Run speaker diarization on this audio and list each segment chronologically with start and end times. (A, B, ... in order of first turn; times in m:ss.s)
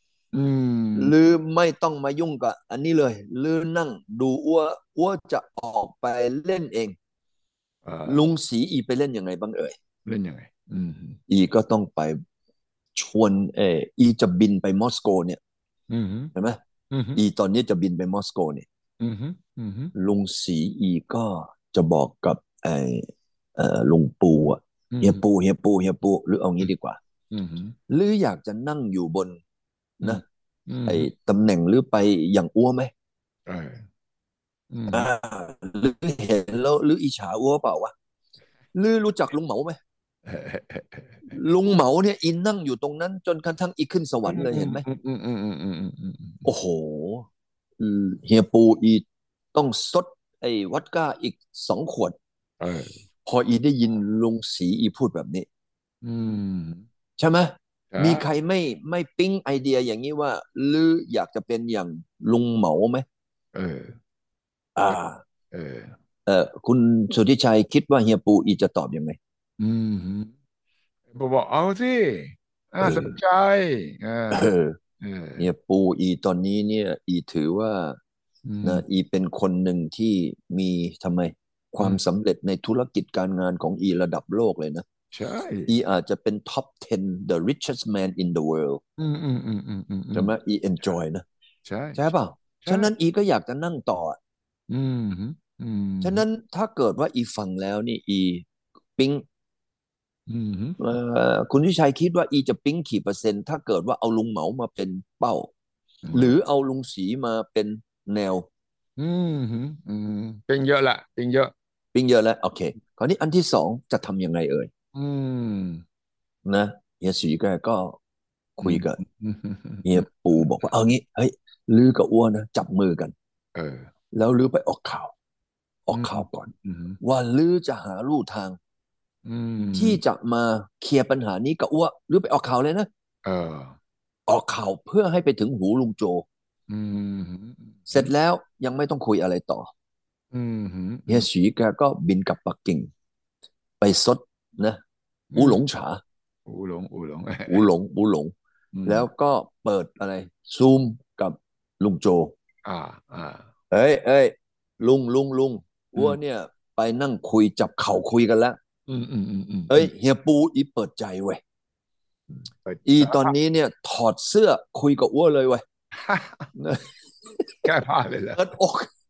0:00.3-0:01.1 A
0:01.0-0:07.0 B
0:07.8-0:08.2 A
0:08.1-0:09.8 B
0:10.1-0:11.2 A
0:11.3-0:12.2 B
0:13.0-0:15.4 B
0:15.9-0:16.3 A
0:16.9-0:17.2 A
0:17.2-0:18.7 B
0:19.0-0:19.9 A
0:20.0-0:27.0 B
0:24.9-0:25.2 A
0:27.3-0:27.8 A
0:27.9-0:29.4 B
0:30.0-0:31.1 A
0:30.9-0:32.9 B
0:33.5-0:33.8 A
0:34.7-0:35.1 A
0:34.9-0:37.9 B
0:38.8-0:39.8 B
0:40.3-0:41.3 A
0:41.3-0:44.8 B
0:44.3-0:46.5 A
0:46.4-0:47.3 B
0:47.8-0:52.2 B
0:52.6-0:53.0 A
0:53.3-0:55.5 B
0:56.0-0:56.9 A
0:57.2-1:03.0 B
0:57.9-0:58.3 A
1:03.5-1:04.0 A
1:04.8-1:05.2 B
1:05.5-1:06.0 A
1:06.3-1:09.2 B
1:09.6-1:10.3 A
1:11.1-1:15.5 A
1:12.8-1:13.2 B
1:14.3-1:14.8 B
1:15.4-1:18.0 B
1:18.5-1:18.8 A
1:18.6-1:24.8 B
1:25.1-1:25.7 A
1:25.7-1:28.8 B
1:29.0-1:30.3 A
1:30.1-1:31.2 B
1:31.6-1:32.0 A
1:32.0-1:34.2 B
1:32.6-1:32.9 A
1:34.7-1:36.2 A
1:36.0-1:38.4 B
1:39.0-1:39.2 B
1:40.3-1:40.8 A
1:40.8-1:45.5 B
1:46.0-1:46.4 A
1:46.1-1:48.5 B
1:49.0-1:51.5 A
1:51.9-1:54.7 B
1:55.0-1:55.8 A
1:56.4-1:58.0 B
1:58.6-1:59.0 B
1:58.6-2:00.7 A
1:59.8-2:03.1 B
2:03.6-2:03.9 A
2:04.1-2:05.1 B
2:05.9-2:08.6 B
2:05.9-2:07.0 A
2:09.3-2:10.0 A
2:09.8-2:12.9 B
2:13.2-2:13.8 A
2:14.3-2:16.2 B
2:16.7-2:18.1 A
2:17.9-2:19.7 B
2:20.3-2:21.3 A
2:21.1-2:22.9 B
2:23.8-2:24.8 B
2:25.3-2:25.6 A
2:25.4-2:26.0 B
2:26.5-2:27.7 A
2:27.5-2:28.3 B
2:28.7-2:29.1 A
2:28.9-2:32.3 B
2:32.6-2:33.4 A
2:33.7-2:38.6 B
2:38.9-2:39.9 A
2:39.7-2:41.4 B
2:42.3-2:43.4 A
2:42.9-2:45.6 B
2:46.0-2:46.5 A
2:46.6-2:47.5 B
2:47.6-2:48.5 A
2:48.4-2:48.9 B